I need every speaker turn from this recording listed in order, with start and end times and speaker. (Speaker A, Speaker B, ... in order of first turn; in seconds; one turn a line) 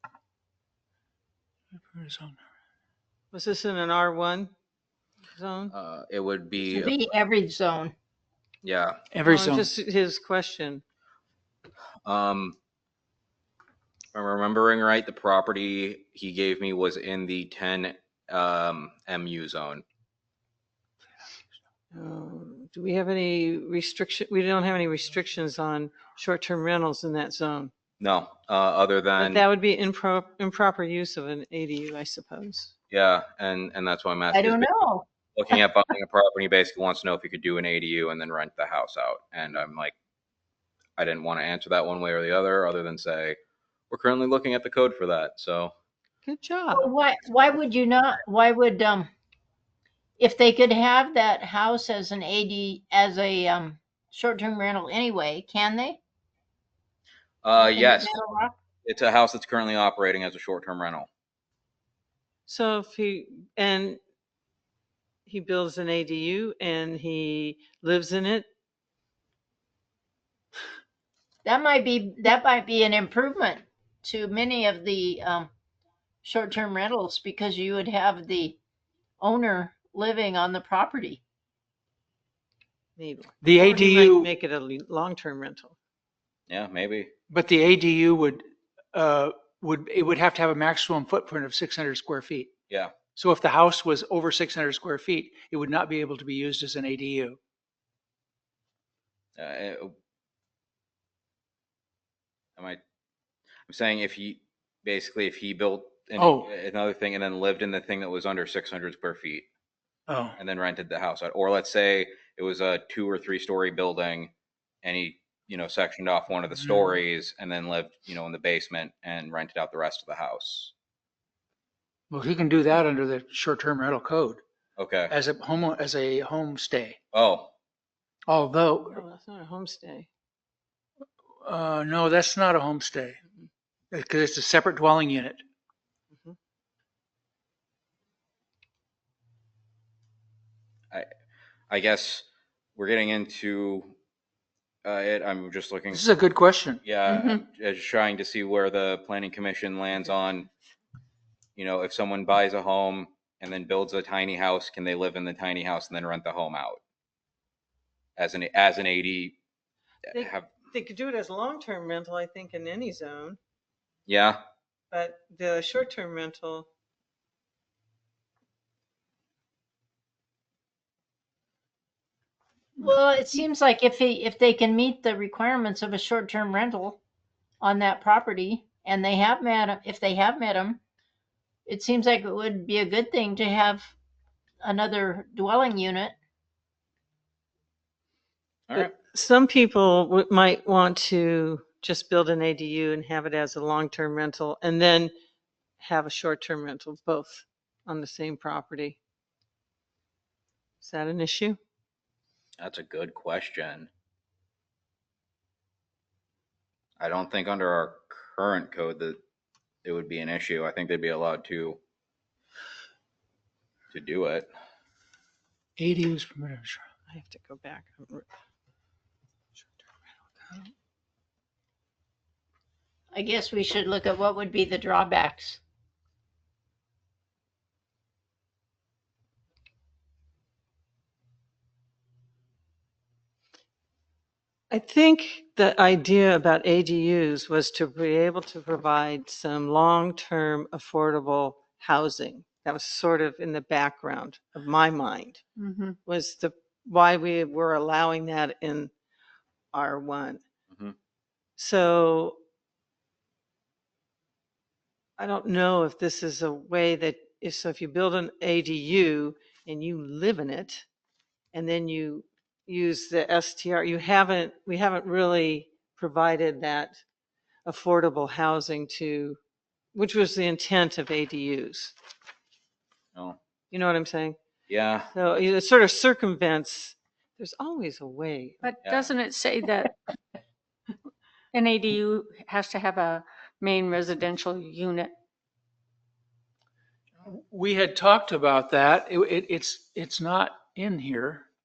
Speaker A: 1.8-2.4
Speaker B: 3.3-4.5
Speaker B: 5.3-5.7
Speaker C: 5.7-6.9
Speaker D: 6.6-7.9
Speaker C: 8.6-9.0
Speaker A: 9.1-9.7
Speaker B: 9.2-10.8
Speaker C: 12.0-12.6
Speaker C: 14.1-19.8
Speaker B: 21.9-27.7
Speaker C: 28.0-29.4
Speaker B: 29.2-32.7
Speaker C: 32.9-34.7
Speaker D: 34.3-35.6
Speaker C: 35.3-39.9
Speaker C: 41.0-43.4
Speaker C: 43.9-45.7
Speaker B: 46.2-46.9
Speaker D: 46.7-49.1
Speaker D: 50.2-56.0
Speaker C: 57.4-58.1
Speaker D: 57.6-58.6
Speaker C: 58.8-61.1
Speaker B: 62.5-64.0
Speaker B: 65.3-68.5
Speaker D: 71.4-75.5
Speaker D: 76.2-78.6
Speaker D: 79.2-81.2
Speaker B: 83.0-85.7
Speaker A: 83.4-84.3
Speaker C: 86.5-87.1
Speaker A: 87.3-92.5
Speaker A: 93.1-97.4
Speaker C: 99.4-99.9
Speaker C: 103.7-109.5
Speaker A: 106.2-106.5
Speaker A: 110.1-110.4
Speaker C: 110.4-120.7
Speaker A: 122.1-124.4
Speaker C: 124.8-125.1
Speaker A: 125.1-127.0
Speaker C: 127.1-127.5
Speaker A: 128.3-129.0
Speaker B: 128.8-130.1
Speaker A: 131.4-133.2
Speaker A: 133.9-135.4
Speaker C: 141.7-143.9
Speaker C: 144.8-146.0
Speaker A: 145.9-146.8
Speaker C: 146.8-150.5
Speaker E: 147.1-147.4
Speaker C: 151.6-156.8
Speaker C: 158.2-159.4
Speaker B: 160.1-163.4
Speaker C: 160.1-160.5
Speaker C: 164.1-164.4
Speaker B: 164.9-166.7
Speaker D: 172.8-177.0
Speaker D: 177.6-180.8
Speaker D: 181.7-183.9
Speaker D: 184.6-186.1
Speaker B: 188.7-195.1
Speaker B: 195.8-199.0
Speaker B: 200.8-201.6
Speaker C: 202.6-203.9
Speaker C: 207.0-209.2
Speaker C: 209.8-211.8
Speaker C: 213.9-214.5
Speaker A: 215.8-216.8
Speaker B: 217.1-218.3
Speaker B: 219.6-220.7
Speaker D: 223.1-225.6
Speaker B: 234.7-245.4
Speaker E: 245.6-246.0
Speaker B: 246.0-248.9
Speaker B: 249.7-250.4
Speaker B: 251.6-252.4
Speaker B: 255.2-260.8
Speaker B: 261.5-267.0
Speaker B: 267.6-269.4
Speaker B: 269.9-271.9
Speaker B: 273.7-274.4
Speaker C: 274.7-275.1
Speaker B: 275.1-278.7
Speaker E: 278.6-279.9
Speaker C: 278.8-279.1
Speaker E: 281.5-285.1
Speaker A: 287.2-291.4